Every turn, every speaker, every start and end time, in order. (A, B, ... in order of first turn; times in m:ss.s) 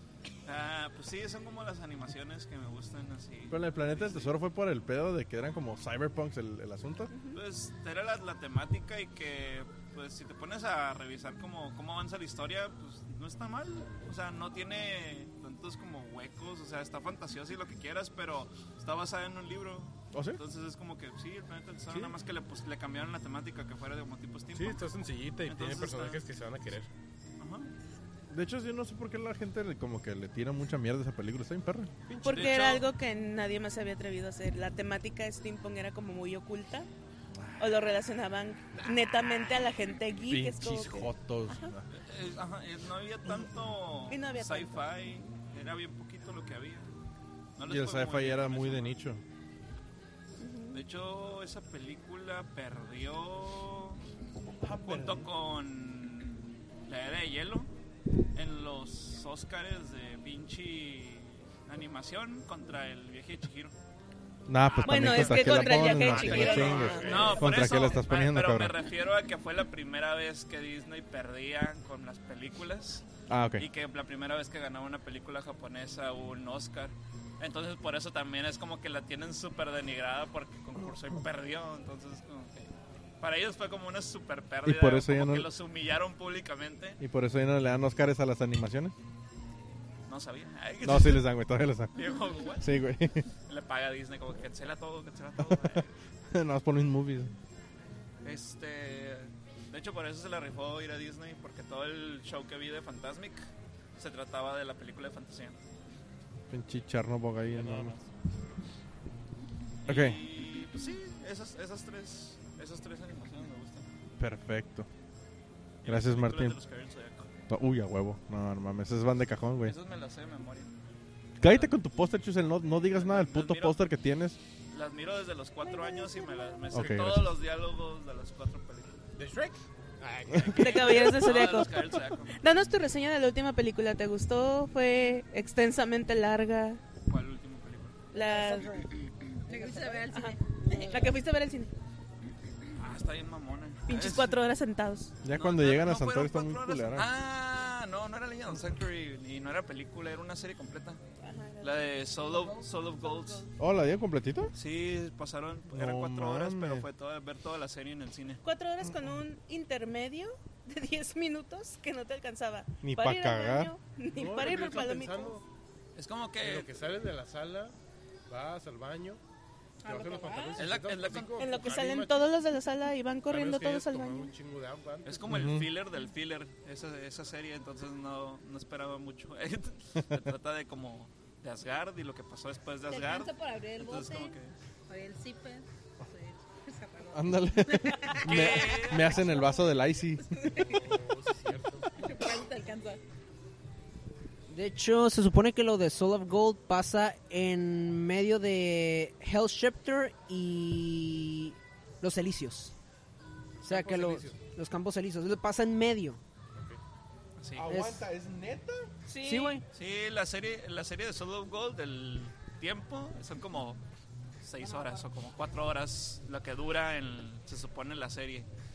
0:00.5-0:04.3 A
0:03.5-0:07.1 B
0:07.1-0:07.4 C
0:07.3-0:24.9 A
0:20.1-0:20.4 B
0:21.9-0:22.2 D
0:24.5-0:26.9 D
0:25.4-0:26.2 A
0:27.4-0:27.7 A
0:28.3-0:31.9 B
0:32.1-0:32.7 D
0:32.2-0:36.9 C
0:32.2-0:32.9 A
0:37.4-0:37.7 B
0:37.6-0:41.7 C
0:40.3-0:41.9 B
0:41.9-0:46.9 A
0:44.1-0:45.2 C
0:47.6-0:49.0 A
0:47.7-0:49.2 B
0:50.4-0:50.8 C
0:50.7-0:54.0 A
0:54.6-0:55.3 B
0:54.8-0:57.7 A
0:58.4-1:03.7 A
1:04.5-1:08.8 B
1:04.6-1:13.1 A
1:04.9-1:07.4 C
1:06.0-1:07.4 D
1:13.3-1:13.7 B
1:13.6-1:22.7 A
1:23.2-1:27.0 A
1:24.6-1:25.5 B
1:27.0-1:29.0 B
1:30.1-1:31.2 A
1:30.8-1:33.3 B
1:32.0-1:32.7 A
1:33.5-1:35.9 A
1:35.4-1:37.3 B
1:38.2-1:45.6 A
1:46.5-1:48.0 B
1:47.5-1:48.0 A
1:49.8-1:53.9 A
1:49.9-1:50.2 B
1:54.2-1:54.9 B
1:55.8-1:57.3 A
1:55.8-1:56.6 B
1:57.5-1:59.8 B
1:59.6-2:00.7 A
2:01.4-2:04.4 B
2:01.4-2:01.8 A
2:02.8-2:03.8 A
2:04.7-2:09.0 A
2:05.7-2:06.5 C
2:06.7-2:07.4 B
2:09.2-2:11.1 D
2:10.5-2:12.4 A
2:10.6-2:16.8 C
2:17.1-2:18.0 A
2:18.1-2:18.8 C
2:18.3-2:18.8 E
2:19.4-2:21.2 F
2:20.0-2:21.7 C
2:22.8-2:24.4 A
2:23.9-2:25.1 C
2:25.2-2:27.1 B
2:25.3-2:31.0 A
2:31.2-2:32.4 C
2:31.6-2:33.5 A
2:33.0-2:33.4 C
2:33.6-2:34.5 B
2:34.5-2:38.4 A
2:35.7-2:36.9 B
2:38.4-2:45.4 C
2:38.8-2:39.1 B
2:42.8-2:43.8 B
2:44.1-2:45.4 D
2:46.0-2:46.7 A
2:46.4-2:47.7 D
2:48.3-2:49.2 D
2:49.8-2:50.7 F
2:49.8-2:52.3 D
2:50.6-2:51.6 A
2:51.4-2:54.3 C
2:53.3-2:55.3 D
2:55.0-3:04.5 A
2:55.3-2:55.7 B
3:02.9-3:10.8 F
3:07.1-3:10.4 B
3:08.2-3:09.2 A
3:10.5-3:11.9 D
3:12.0-3:13.0 F
3:14.5-3:22.7 E
3:23.6-3:24.4 D
3:23.6-3:26.2 E
3:26.5-3:26.8 D
3:27.4-3:27.7 A
3:27.6-3:28.9 B
3:27.7-3:28.0 E
3:29.1-3:29.6 C
3:29.2-3:29.6 E
3:29.7-3:33.8 A
3:34.4-3:38.5 A